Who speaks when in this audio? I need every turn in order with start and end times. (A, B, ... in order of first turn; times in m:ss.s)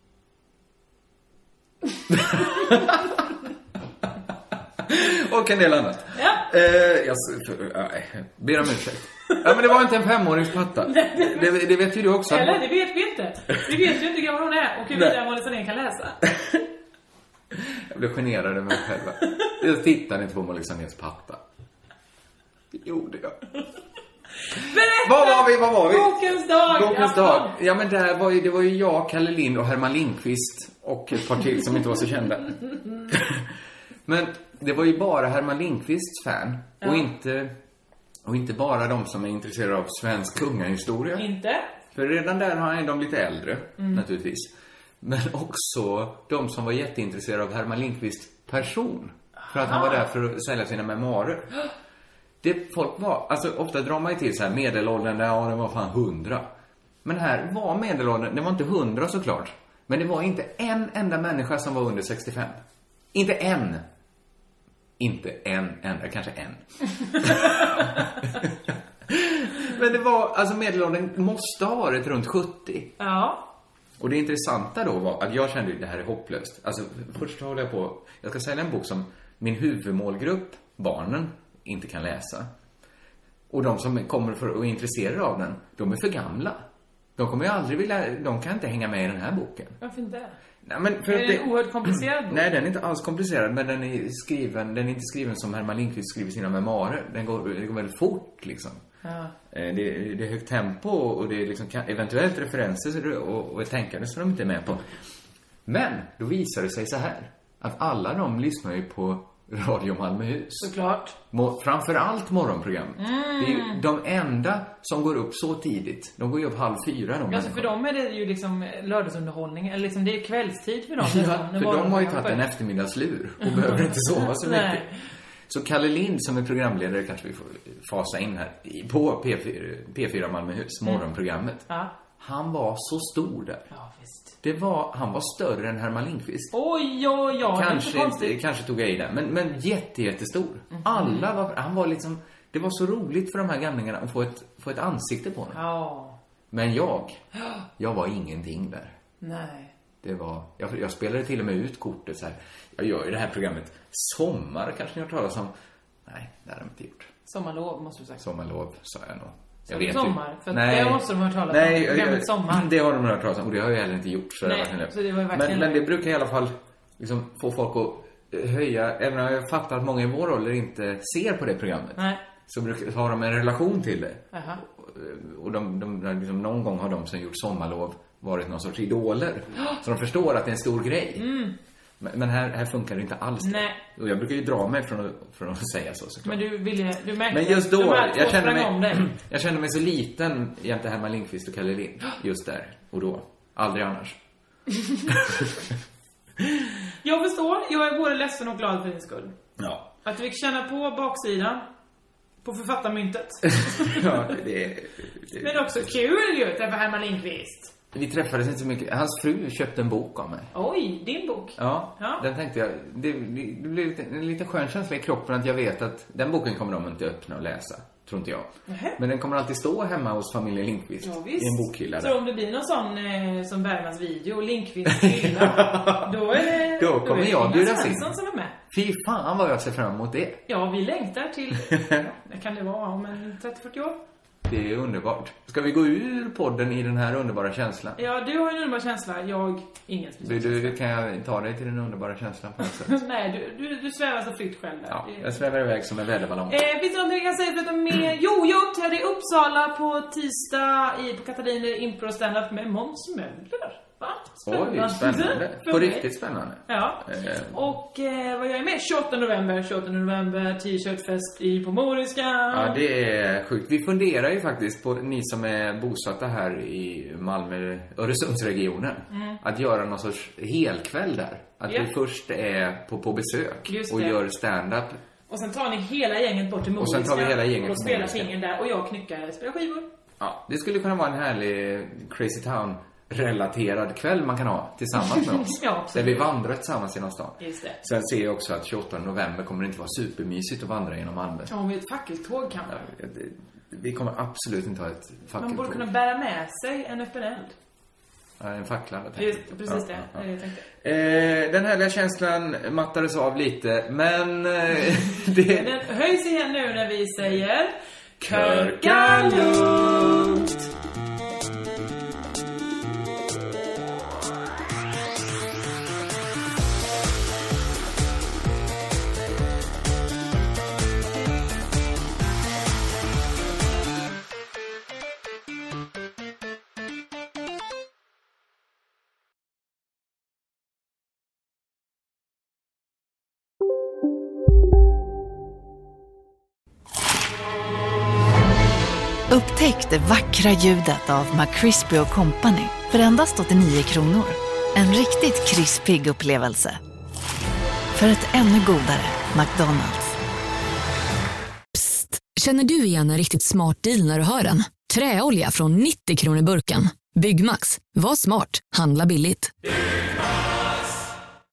0:02.1-0:03.2 A
0:04.8-0:12.7 A
0:06.2-0:06.5 B
0:10.8-0:11.5 B
0:12.3-0:16.3 B
0:17.6-0:21.4 A
0:22.7-0:23.4 A
0:24.5-0:27.6 B
0:24.7-0:33.5 A
0:34.1-0:37.5 A
0:36.8-0:37.1 B
0:38.2-0:41.3 A
0:41.2-0:41.7 B
0:41.9-0:51.5 A
0:43.8-0:44.0 B
0:49.4-0:50.0 B
0:52.4-0:56.5 A
0:57.0-1:02.6 A
1:03.1-1:03.8 A
1:05.0-1:12.9 A
1:13.0-1:13.4 B
1:14.0-1:22.5 A
1:23.5-1:26.6 A
1:27.2-1:29.8 A
1:29.8-1:30.4 B
1:30.6-1:38.8 A
1:31.1-1:32.5 B
1:39.0-1:39.3 B
1:39.5-1:44.9 A
1:45.7-1:50.8 A
1:50.6-1:51.2 B
1:51.3-1:57.7 A
1:53.0-1:53.8 B
1:57.3-2:02.4 B
2:01.0-2:05.0 A
2:03.4-2:04.9 B
2:05.5-2:11.6 A
2:12.2-2:13.6 A
2:13.7-2:14.3 B
2:14.4-2:16.5 A
2:16.5-2:18.3 B
2:17.4-2:25.6 A
2:20.7-2:21.3 B
2:25.5-2:26.2 B
2:26.5-2:27.2 A
2:27.8-2:29.0 A
2:29.2-2:29.7 B
2:30.0-2:35.5 A
2:36.1-2:37.1 A
2:37.3-2:38.2 B
2:38.2-3:01.3 A
2:39.7-2:42.7 B
2:44.4-2:45.8 B
2:52.0-2:52.2 B
2:54.3-2:54.6 B
3:01.2-3:01.5 B
3:02.0-3:06.5 A
3:03.4-3:03.8 B
3:06.2-3:09.1 B
3:07.3-3:14.2 A
3:15.1-3:15.6 A
3:17.0-3:19.3 B
3:19.6-3:19.9 A
3:20.0-3:21.6 B
3:22.4-3:24.3 B
3:23.7-3:25.9 A
3:25.4-3:27.7 B
3:27.9-3:30.5 A
3:30.5-3:32.2 B
3:31.6-3:42.2 A
3:38.7-3:39.0 B
3:41.0-3:48.5 B
3:44.9-3:48.2 A
3:48.7-3:50.4 A
3:50.5-3:54.0 B
3:54.5-3:58.0 A
3:58.0-4:00.8 B
4:00.2-4:03.0 A
4:02.8-4:05.4 B
4:04.9-4:06.6 A
4:06.5-4:16.1 B
4:14.5-4:17.6 A
4:16.7-4:22.8 B
4:22.5-4:35.0 A
4:29.1-4:29.4 B
4:33.7-4:34.2 B
4:35.3-4:39.9 B
4:36.8-4:38.3 A
4:40.2-4:51.5 A
4:45.0-4:46.3 B
4:47.4-4:47.8 B
4:51.5-4:52.8 B
4:52.7-4:55.9 A
4:55.4-4:57.6 B
4:58.4-5:05.8 A
4:59.2-5:00.6 B
5:05.5-5:10.3 B
5:08.2-5:10.6 A
5:39.3-5:46.8 C
5:48.0-5:50.1 C
5:51.7-5:59.5 D